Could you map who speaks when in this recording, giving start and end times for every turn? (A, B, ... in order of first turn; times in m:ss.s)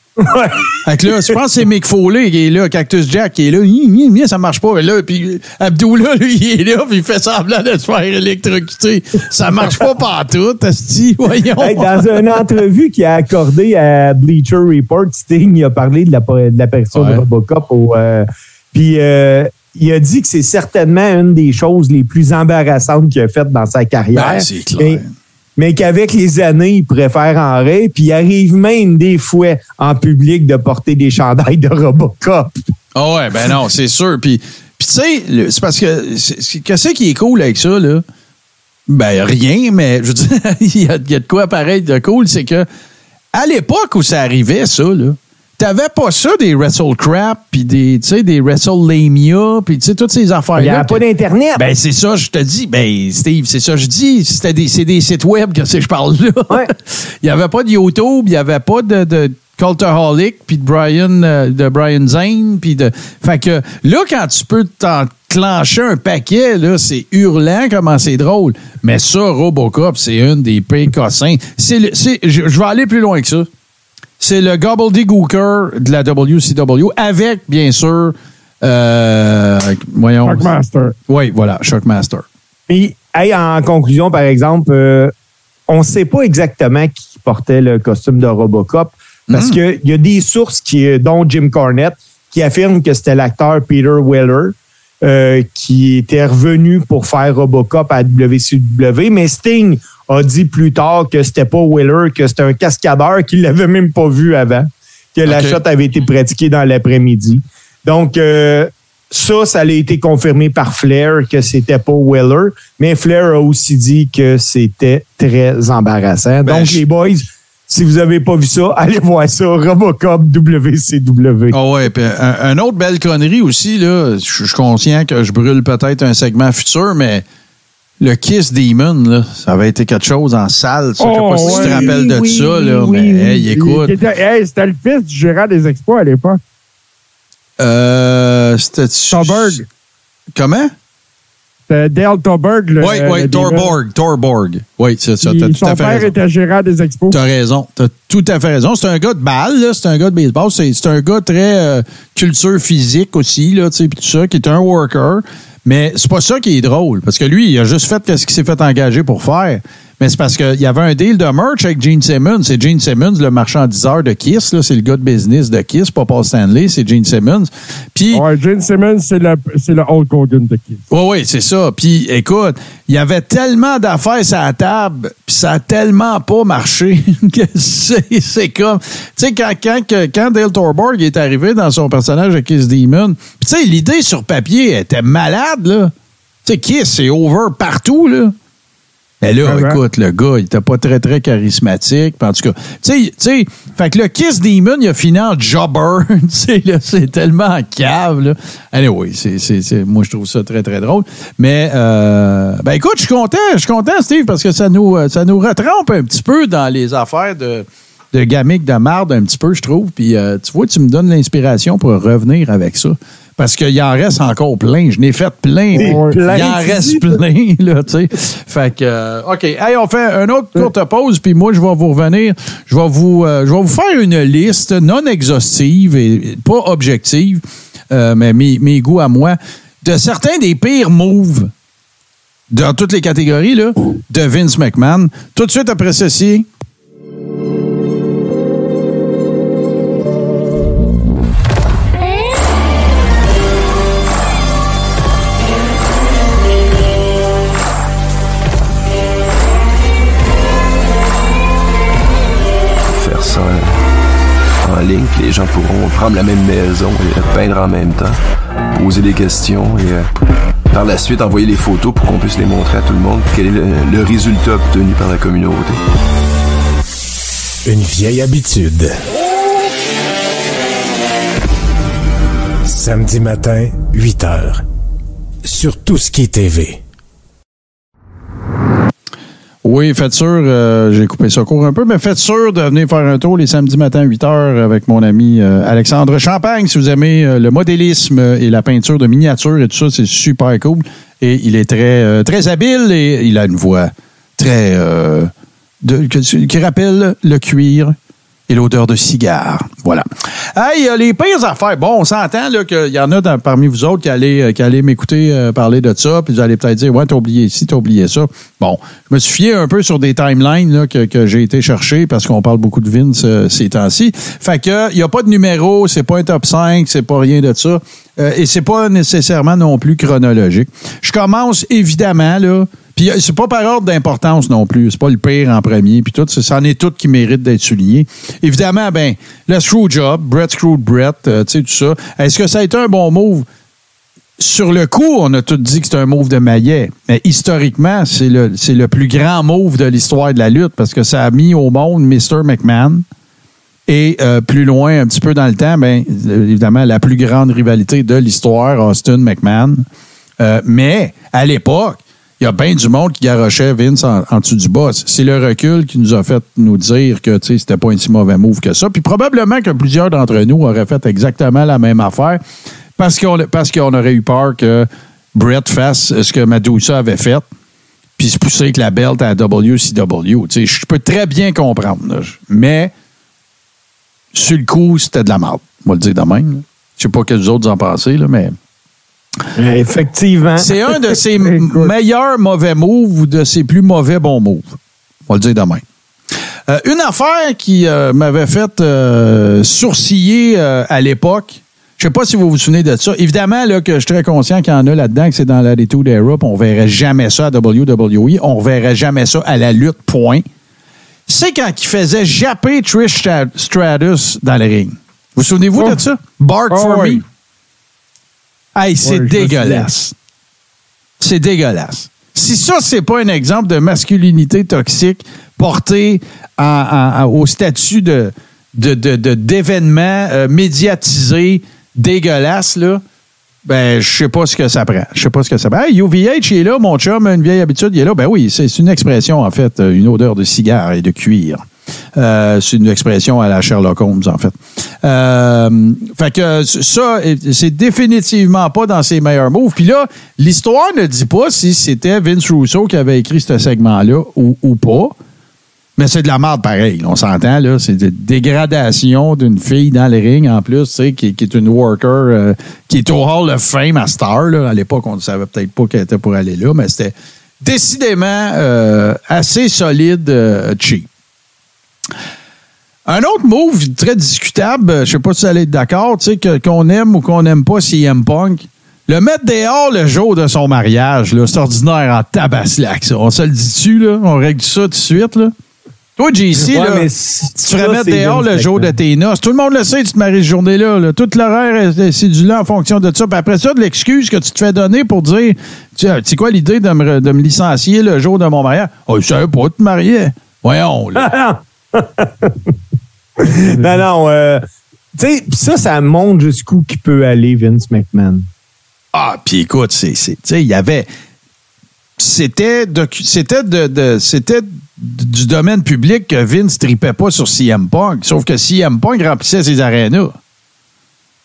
0:00.2-0:01.4 A
0:00.8-0:12.4 B
0:11.6-0:25.0 A
0:16.9-0:17.2 B
0:24.1-0:25.1 B
0:25.6-0:32.5 A
0:33.0-0:38.0 B
0:38.9-0:42.7 B
0:43.3-0:51.0 B
0:50.6-0:51.6 A
0:51.6-1:13.5 B
1:14.2-1:20.5 B
1:20.2-1:21.0 C
1:21.1-1:22.2 B
1:22.7-1:25.1 A
1:25.7-2:01.6 A
1:29.3-1:29.6 B
1:45.3-1:45.6 B
1:56.4-1:56.8 B
2:01.5-2:07.2 B
2:08.0-2:13.9 B
2:11.0-2:16.4 C
2:11.4-2:13.1 A
2:17.6-2:19.6 B
2:19.1-2:19.6 C
2:20.3-2:20.7 B
2:21.7-2:23.7 C
2:22.8-2:26.1 B
2:25.2-2:27.2 C
2:27.1-2:48.2 B
2:48.1-2:50.8 C
2:50.9-3:05.9 B
3:06.4-3:08.4 B
3:09.2-3:51.5 B
3:09.4-3:09.8 C
3:35.8-3:36.2 C
3:35.8-3:37.2 A
3:52.5-3:56.5 B
4:12.9-4:13.8 D
4:14.6-4:18.2 D
4:18.7-4:20.1 D
4:20.7-4:25.8 D
4:27.6-4:29.1 E
4:32.7-4:34.6 E
4:35.4-4:36.8 E
4:39.6-4:58.0 B
4:58.5-5:33.5 B
5:34.4-5:43.0 B
5:43.9-5:49.9 B
5:50.4-6:02.4 B
6:03.0-6:07.4 B
6:08.2-6:12.9 B
6:14.3-6:18.6 B
6:19.6-6:20.7 A
6:20.6-6:25.8 B
6:21.5-6:21.9 C
6:26.7-6:40.4 B
6:41.3-6:47.2 B
6:45.8-6:46.0 C
6:46.7-6:47.2 C
6:48.8-6:50.2 B
6:49.0-6:49.9 C
6:51.2-7:03.0 B
7:03.6-7:11.6 B
7:12.2-7:25.2 B
7:26.0-7:41.1 B
7:43.1-7:55.5 B
7:56.2-8:11.3 B
7:56.6-7:58.9 A
8:11.2-8:12.7 A
8:13.4-8:14.6 A
8:15.2-8:18.5 A
8:19.1-8:21.1 B
8:22.2-8:30.4 B